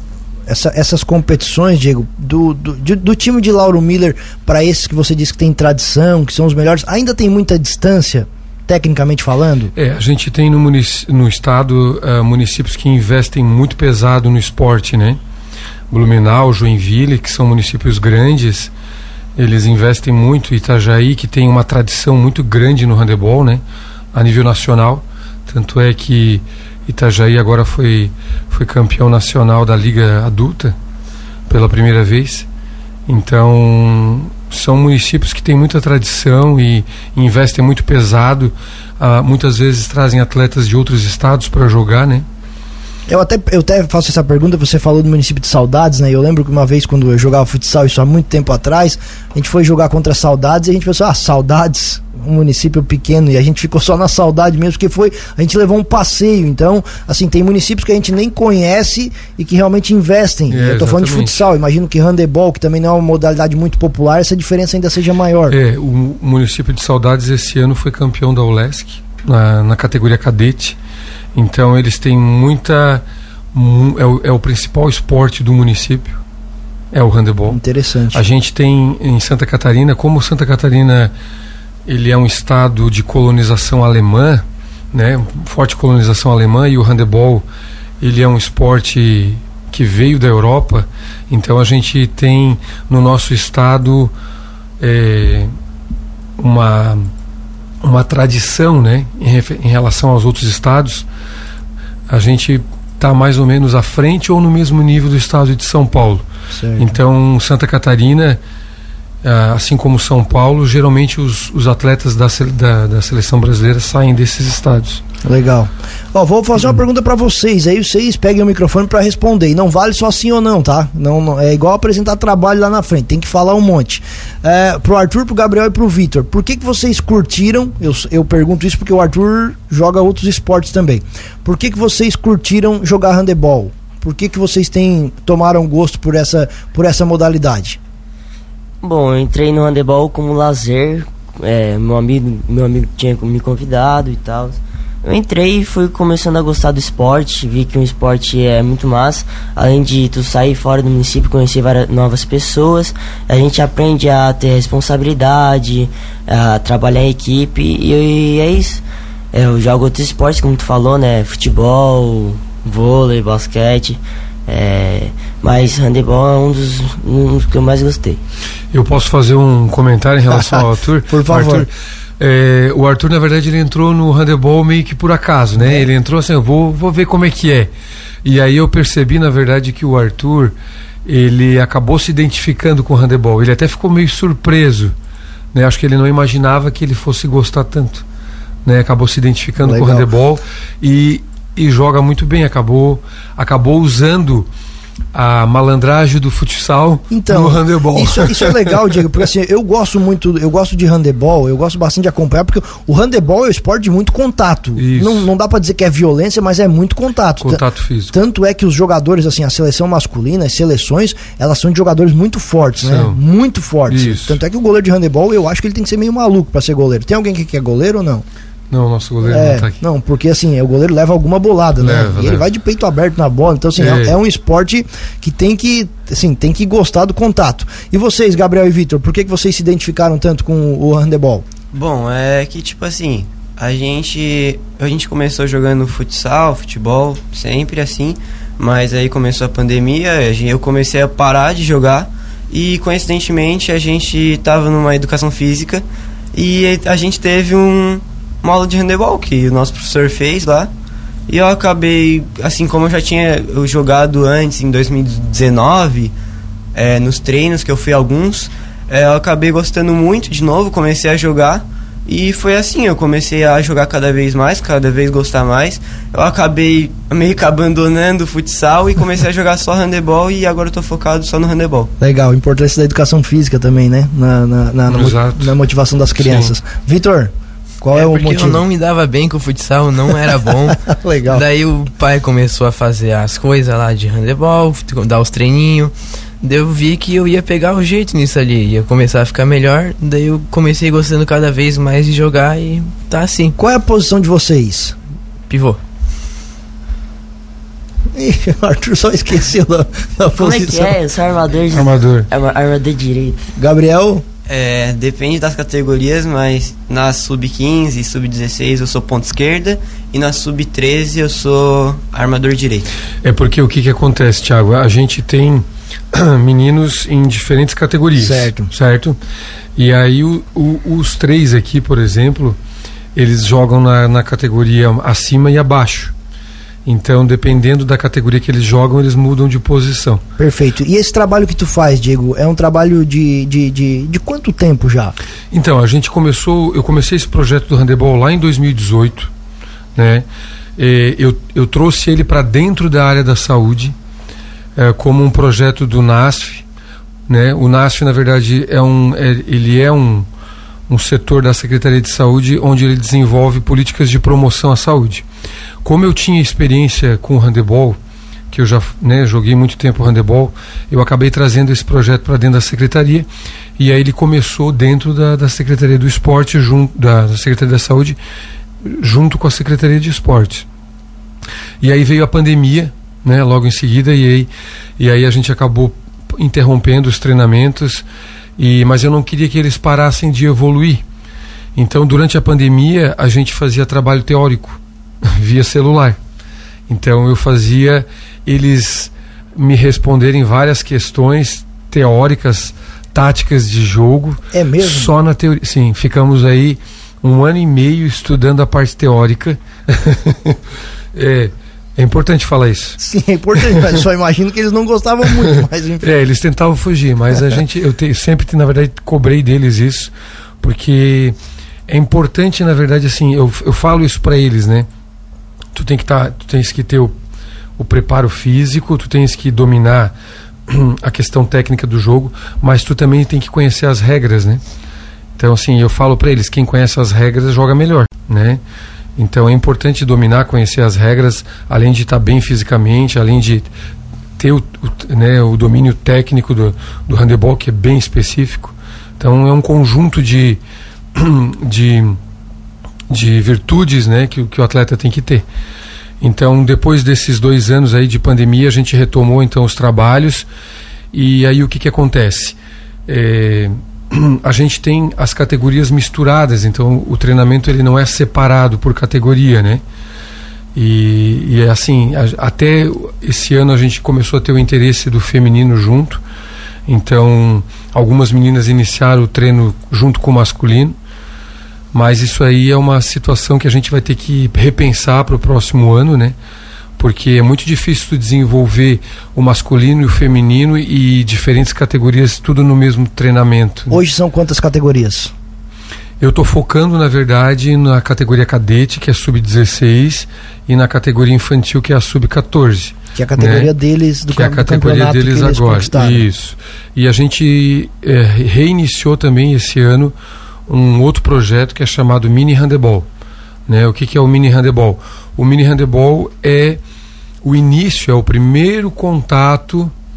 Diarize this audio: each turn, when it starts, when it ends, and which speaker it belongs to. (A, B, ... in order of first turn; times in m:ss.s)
0:00.5-0:09.7 A
0:09.8-0:15.2 B
0:15.9-0:18.7 B
0:19.4-0:23.6 B
0:24.1-0:30.8 B
0:31.5-0:32.5 B
0:33.1-0:42.2 B
0:43.1-1:05.6 A
1:00.5-1:01.5 B
1:05.5-1:10.8 B
1:11.4-1:16.2 B
1:16.9-1:17.6 B
1:17.5-1:18.2 A
1:18.1-1:21.1 B
1:21.9-1:27.4 B
1:28.0-1:34.1 B
1:34.8-1:35.5 B
1:36.4-1:37.1 B
1:37.8-1:41.1 B
1:42.1-1:46.3 B
1:46.5-1:46.9 A
1:46.8-1:48.4 B
1:49.2-1:55.0 B
1:55.2-2:17.8 A
2:18.8-2:38.8 C
2:39.3-2:48.2 C
2:48.7-2:57.7 B
2:50.3-2:51.7 A
2:58.2-3:00.5 B
3:01.0-3:04.9 B
3:05.5-3:08.0 B
3:08.6-3:14.5 B
3:09.6-3:10.1 A
3:15.1-3:18.8 B
3:17.1-3:38.2 A
3:24.8-3:25.3 B
3:27.4-3:28.1 B
3:32.8-3:33.2 B
3:33.9-3:34.4 B
3:38.7-3:39.8 B
3:39.2-3:51.5 A
3:41.8-3:42.4 B
3:43.8-3:44.2 B
3:51.7-4:10.7 D
4:11.3-4:16.1 D
4:16.8-4:31.9 D
4:32.0-4:38.6 A
4:34.9-4:35.6 B
4:36.2-4:36.6 B
4:37.9-4:53.6 E
4:40.8-4:41.4 A
4:53.6-4:55.0 A
4:55.5-4:55.8 E
4:58.1-5:01.0 A
5:00.4-5:03.5 C
5:01.7-5:02.3 B
5:03.6-5:04.2 A
5:04.5-5:12.9 D
5:13.2-5:19.2 B
5:18.2-5:18.7 A
5:19.8-5:22.6 B
5:23.2-5:26.1 B
5:26.8-5:30.2 B
5:30.4-5:35.2 A
5:35.5-5:39.3 B
5:40.0-5:44.0 B
5:44.8-5:46.7 B
5:47.3-5:50.3 B
5:50.9-5:55.3 B
5:55.8-5:58.0 B
5:58.5-6:08.2 B
6:08.8-6:10.7 B
6:11.8-6:18.0 B
6:18.6-6:21.0 B
6:21.8-6:26.2 B
6:26.9-6:40.6 B
6:34.5-6:35.1 A
6:41.1-6:43.0 B
6:43.0-6:46.1 A
6:43.6-6:43.9 B
6:45.4-6:51.4 B
6:51.9-6:54.9 B
6:55.7-6:57.2 B
6:57.8-7:00.1 B
7:00.7-7:04.6 B
7:05.4-7:08.6 B
7:09.2-7:13.7 B
7:14.4-7:20.6 B
7:21.1-7:22.2 B
7:23.1-7:25.4 B
7:26.2-7:30.5 B
7:31.1-7:39.8 B
7:40.8-7:46.2 B
7:46.9-7:51.0 B
7:51.9-7:56.4 B
7:57.0-8:04.0 B
8:03.9-8:05.3 A
8:06.2-8:13.7 B
8:13.2-8:16.2 A
8:14.3-8:20.1 B
8:20.7-8:23.1 B
8:23.7-8:26.8 B
8:27.4-8:29.9 B